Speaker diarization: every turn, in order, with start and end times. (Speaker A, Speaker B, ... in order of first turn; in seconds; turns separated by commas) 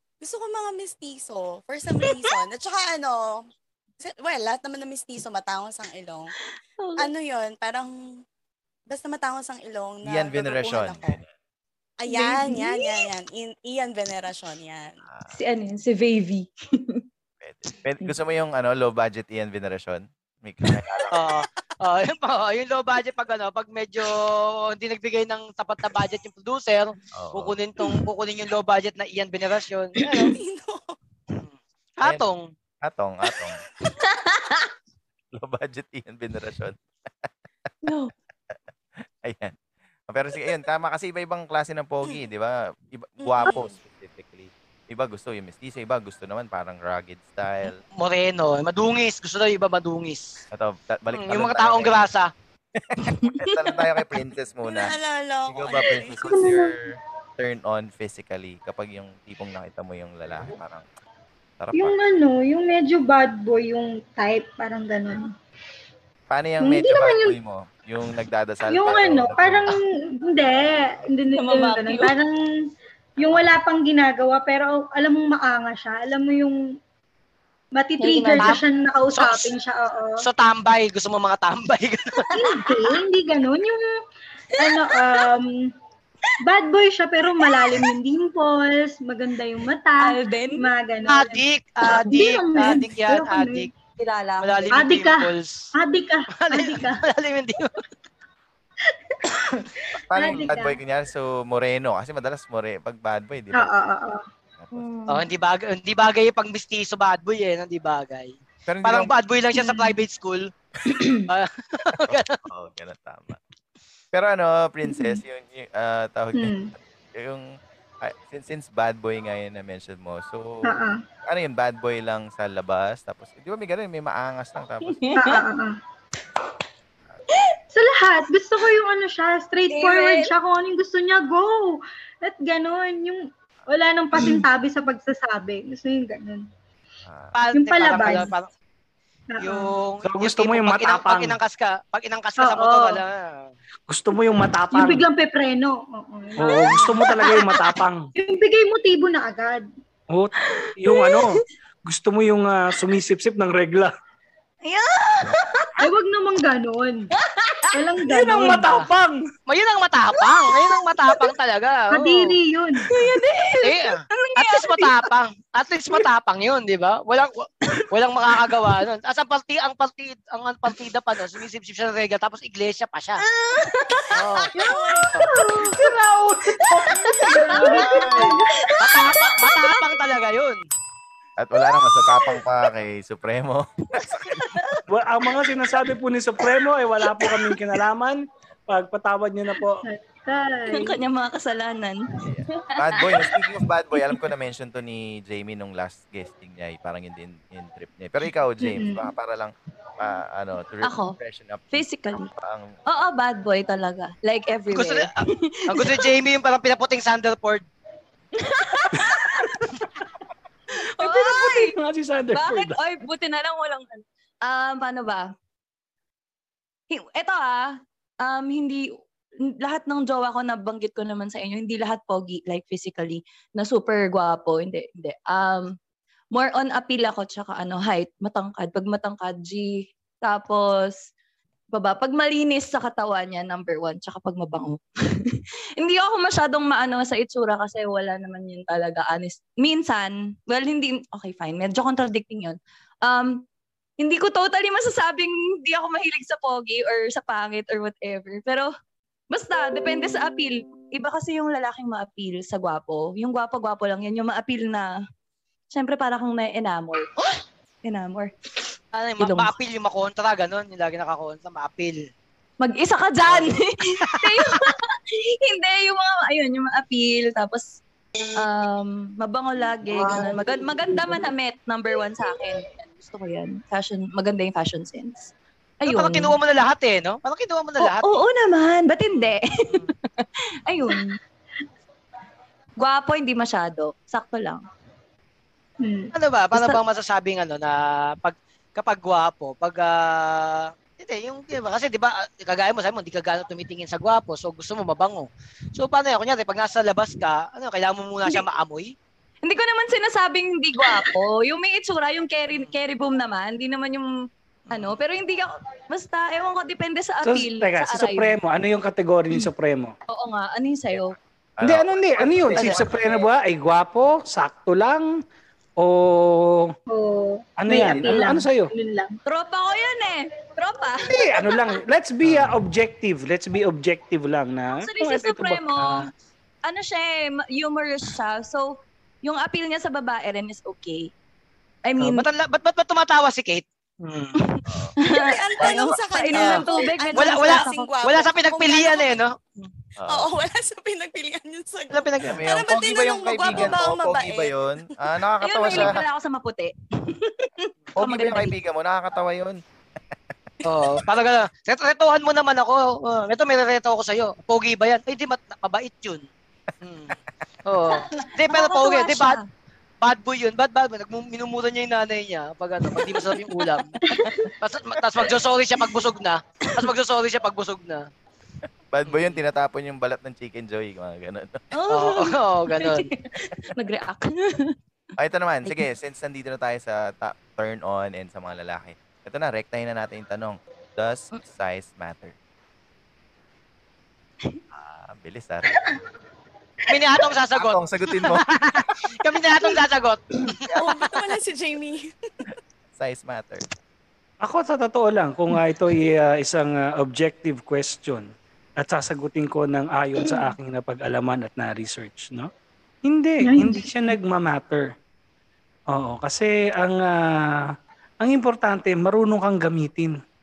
Speaker A: 0.2-3.4, Speaker B: 2.0-2.3, Speaker A: 4.0-6.3, Speaker B: 6.8-7.1, Speaker A: 7.0-7.9, Speaker A: 8.9-11.2, Speaker C: 10.1-11.3, Speaker A: 12.0-15.0, Speaker B: 12.1-13.1, Speaker C: 15.1-15.3, Speaker B: 15.3-17.0, Speaker C: 17.4-21.3, Speaker D: 21.1-30.3, Speaker C: 27.1-27.6, Speaker B: 30.0-30.3, Speaker A: 30.1-31.0, Speaker D: 31.3-32.5, Speaker C: 32.8-33.6, Speaker B: 33.4-34.7, Speaker C: 35.3-36.8, Speaker B: 37.8-38.1, Speaker C: 39.2-39.5, Speaker C: 40.1-47.8, Speaker A: 43.2-43.8, Speaker D: 48.0-50.4, Speaker C: 50.5-52.1, Speaker D: 51.1-52.3, Speaker C: 52.8-54.9, Speaker B: 53.0-53.8, Speaker A: 54.6-56.4, Speaker C: 55.5-60.9, Speaker E: 56.2-56.8, Speaker C: 61.6-62.0, Speaker E: 61.7-65.3, Speaker C: 66.3-69.7, Speaker E: 66.6-67.3, Speaker E: 68.7-72.4, Speaker B: 71.4-72.1, Speaker E: 73.2-76.6, Speaker E: 77.8-80.3, Speaker B: 78.0-78.6, Speaker D: 79.1-79.5, Speaker D: 80.2-82.3, Speaker B: 82.3-82.8, Speaker E: 82.3-83.9, Speaker B: 84.5-85.2, Speaker E: 84.6-85.7, Speaker E: 86.4-91.4, Speaker B: 87.4-87.9, Speaker B: 90.0-90.7, Speaker D: 91.1-93.7, Speaker E: 92.0-93.7, Speaker B: 94.0-94.7, Speaker D: 94.4-95.7, Speaker E: 94.7-97.0, Speaker D: 96.3-97.8, Speaker E: 99.2-100.8, Speaker C: 100.1-103.7, Speaker E: 103.5-104.2, Speaker B: 104.7-105.3, Speaker D: 105.1-110.5, Speaker C: 108.7-109.1, Speaker B: 110.9-111.3, Speaker D: 111.3-112.4, Speaker C: 112.0-113.4, Speaker C: 114.1-116.6, Speaker E: 116.3-116.7, Speaker C: 117.1-120.7, Speaker E: 120.6-121.0, Speaker C: 121.3-125.1, Speaker B: 124.8-125.4, Speaker E: 125.2-125.8, Speaker B: 127.3-127.6, Speaker E: 127.7-136.5, Speaker B: 129.7-130.3, Speaker C: 137.1-137.4, Speaker D: 137.3-138.5, Speaker E: 137.5-138.3, Speaker E: 139.3-139.7, Speaker D: 139.4-143.5, Speaker F: 140.0-141.4, Speaker E: 142.4-143.0, Speaker F: 143.9-145.1, Speaker E: 144.7-147.5, Speaker F: 146.4-148.1, Speaker B: 146.5-147.6, Speaker E: 148.2-149.7, Speaker F: 150.1-153.9, Speaker B: 150.4-151.4, Speaker B: 154.7-155.8, Speaker E: 155.8-157.1, Speaker B: 157.1-157.8, Speaker E: 157.7-158.8, Speaker F: 158.1-159.3, Speaker D: 159.5-162.3, Speaker B: 160.2-161.3, Speaker E: 161.9-162.9, Speaker B: 162.9-165.1, Speaker D: 163.6-173.2, Speaker B: 168.4-168.8, Speaker B: 173.2-175.8, Speaker D: 174.1-174.5, Speaker A: 174.4-175.2, Speaker E: 175.4-175.8, Speaker F: 175.7-176.8, Speaker B: 176.7-177.9, Speaker E: 177.2-178.5, Speaker C: 177.6-178.4, Speaker B: 178.5-179.9, Speaker D: 178.8-180.6, Speaker C: 181.4-184.6, Speaker B: 181.7-182.4, Speaker B: 184.3-184.8, Speaker F: 184.9-189.8, Speaker B: 187.0-187.6, Speaker E: 189.8-191.0, Speaker B: 190.7-194.2, Speaker C: 192.2-202.8, Speaker E: 198.6-199.1, Speaker B: 200.8-201.2, Speaker B: 201.7-202.3, Speaker B: 202.9-206.1, Speaker D: 204.7-205.1, Speaker D: 205.7-207.7, Speaker B: 208.3-209.7, Speaker F: 208.9-209.7, Speaker B: 211.0-211.8, Speaker F: 211.0-212.8, Speaker B: 212.3-215.3, Speaker B: 216.9-218.9, Speaker B: 219.6-225.8, Speaker B: 226.3-231.0, Speaker B: 231.7-243.4, Speaker B: 244.0-248.7, Speaker B: 249.3-254.9, Speaker B: 255.7-258.3, Speaker D: 258.9-262.0, Speaker B: 259.2-259.5, Speaker B: 262.6-267.8, Speaker D: 263.3-264.7, Speaker B: 268.4-276.4, Speaker D: 269.9-270.5, Speaker D: 275.9-278.2, Speaker B: 277.8-281.2, Speaker D: 279.1-279.9, Speaker B: 282.8-284.6, Speaker E: 285.8-286.1, Speaker D: 286.1-298.9, Speaker B: 286.5-286.8, Speaker B: 299.4-304.1, Speaker D: 302.5-302.8, Speaker D: 304.7-305.0, Speaker B: 304.7-308.4, Speaker F: 307.2-309.9, Speaker B: 310.1-311.2, Speaker C: 311.6-313.2, Speaker F: 311.6-315.2, Speaker D: 312.5-313.1, Speaker F: 315.8-316.8, Speaker E: 316.9-319.2, Speaker F: 317.6-318.7, Speaker C: 317.8-318.2, Speaker B: 319.3-321.7, Speaker F: 321.0-326.1, Speaker B: 324.8-326.1, Speaker B: 326.6-331.1, Speaker B: 331.9-332.3, Speaker D: 332.0-334.4, Speaker B: 334.4-337.9, Speaker C: 334.7-334.9, Speaker A: 335.0-339.2, Speaker C: 335.6-335.9, Speaker D: 336.3-339.7, Speaker C: 340.0-340.3, Speaker A: 340.1-344.6, Speaker D: 341.9-342.4, Speaker C: 342.2-346.0, Speaker B: 345.4-348.5, Speaker C: 348.0-349.6, Speaker D: 350.6-356.2, Speaker D: 356.8-359.4, Speaker B: 357.9-359.5, Speaker D: 360.0-363.9, Speaker B: 362.9-364.5, Speaker D: 364.6-368.1, Speaker C: 368.9-371.7, Speaker D: 369.1-369.4, Speaker B: 371.7-374.8, Speaker D: 371.9-373.1, Speaker C: 375.2-382.4, Speaker C: 384.7-385.7, Speaker D: 386.9-391.2, Speaker C: 387.6-389.0, Speaker A: 390.7-392.1, Speaker C: 393.0-393.7, Speaker F: 394.4-402.5, Speaker E: 400.3-400.5, Speaker F: 403.1-404.9, Speaker E: 403.4-404.1, Speaker F: 405.9-407.6, Speaker F: 408.2-410.2